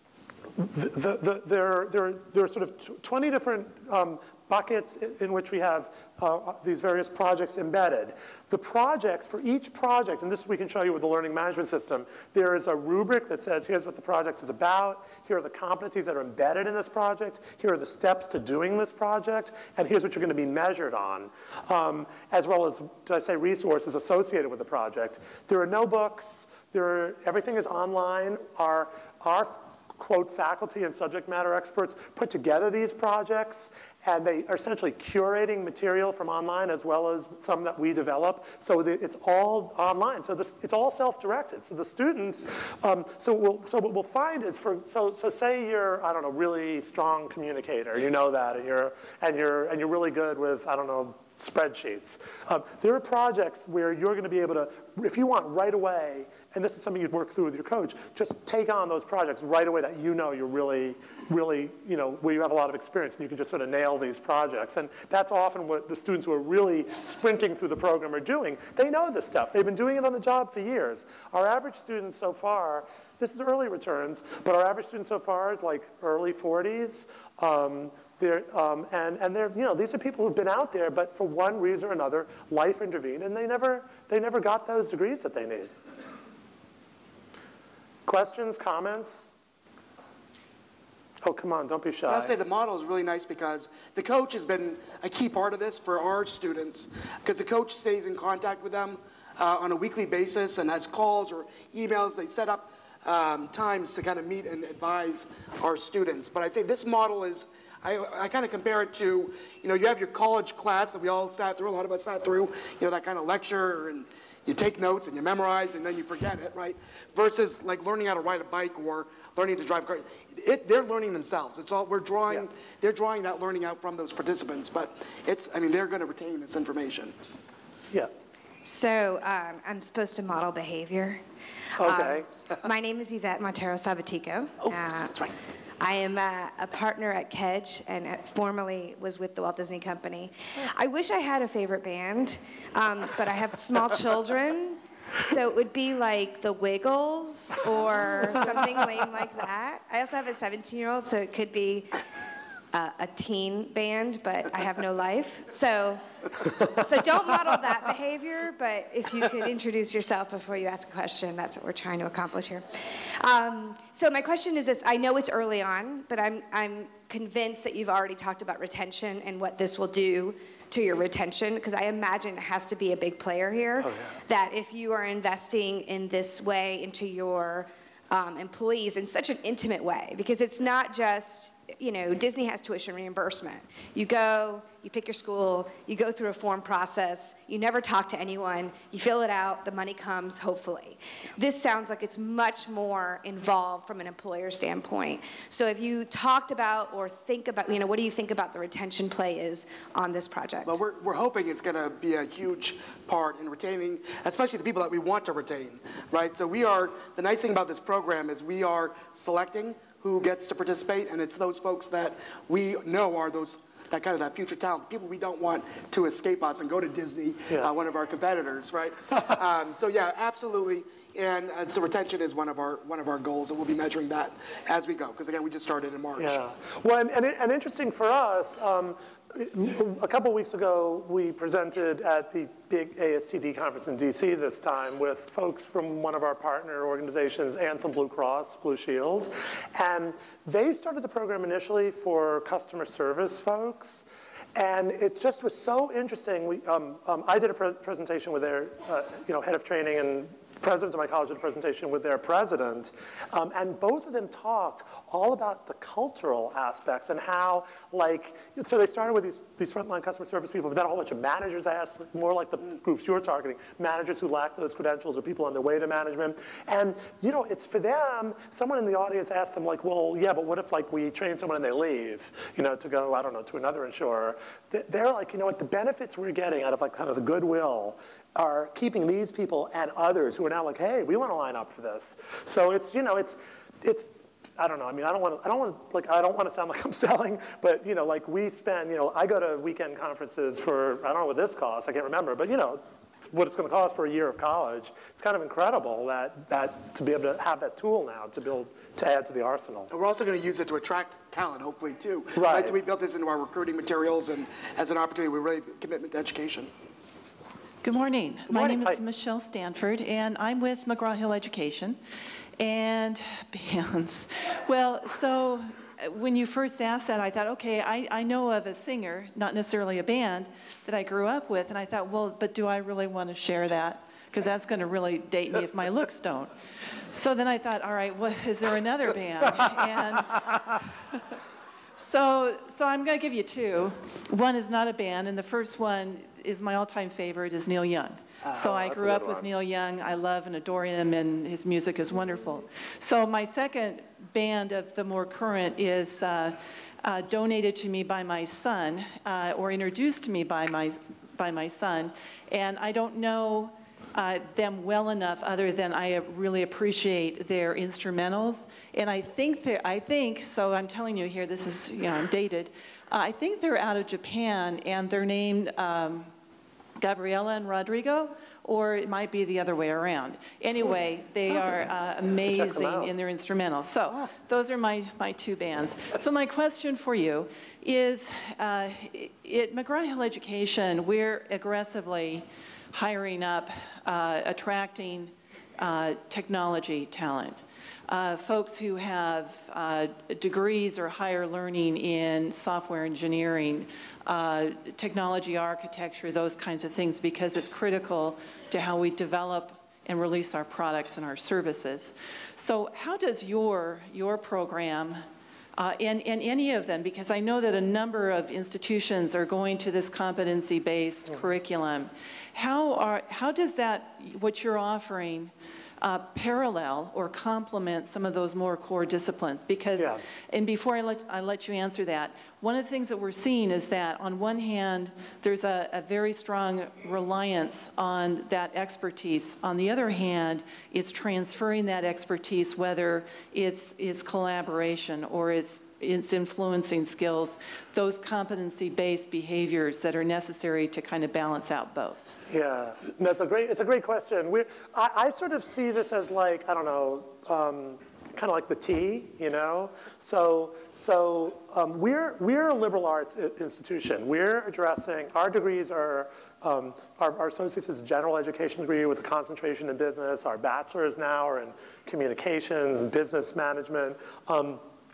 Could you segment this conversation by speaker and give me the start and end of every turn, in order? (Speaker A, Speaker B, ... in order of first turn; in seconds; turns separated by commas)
Speaker A: 0.6-85.7, Speaker A: 88.1-89.3, Speaker A: 91.2-92.3, Speaker B: 92.1-127.1, Speaker C: 128.6-131.2, Speaker A: 131.8-132.3, Speaker C: 131.8-135.3, Speaker C: 135.8-152.0, Speaker C: 152.7-200.8, Speaker A: 173.8-174.2, Speaker B: 200.7-226.4, Speaker A: 226.2-299.9, Speaker B: 299.9-306.7, Speaker A: 302.4-302.8, Speaker D: 307.8-312.0, Speaker A: 308.5-309.0, Speaker D: 312.6-326.5, Speaker D: 327.1-331.2, Speaker D: 332.0-366.3, Speaker A: 338.5-339.5, Speaker D: 367.0-405.2, Speaker A: 372.4-373.1, Speaker D: 405.8-442.3, Speaker A: 420.0-420.2, Speaker A: 442.5-464.8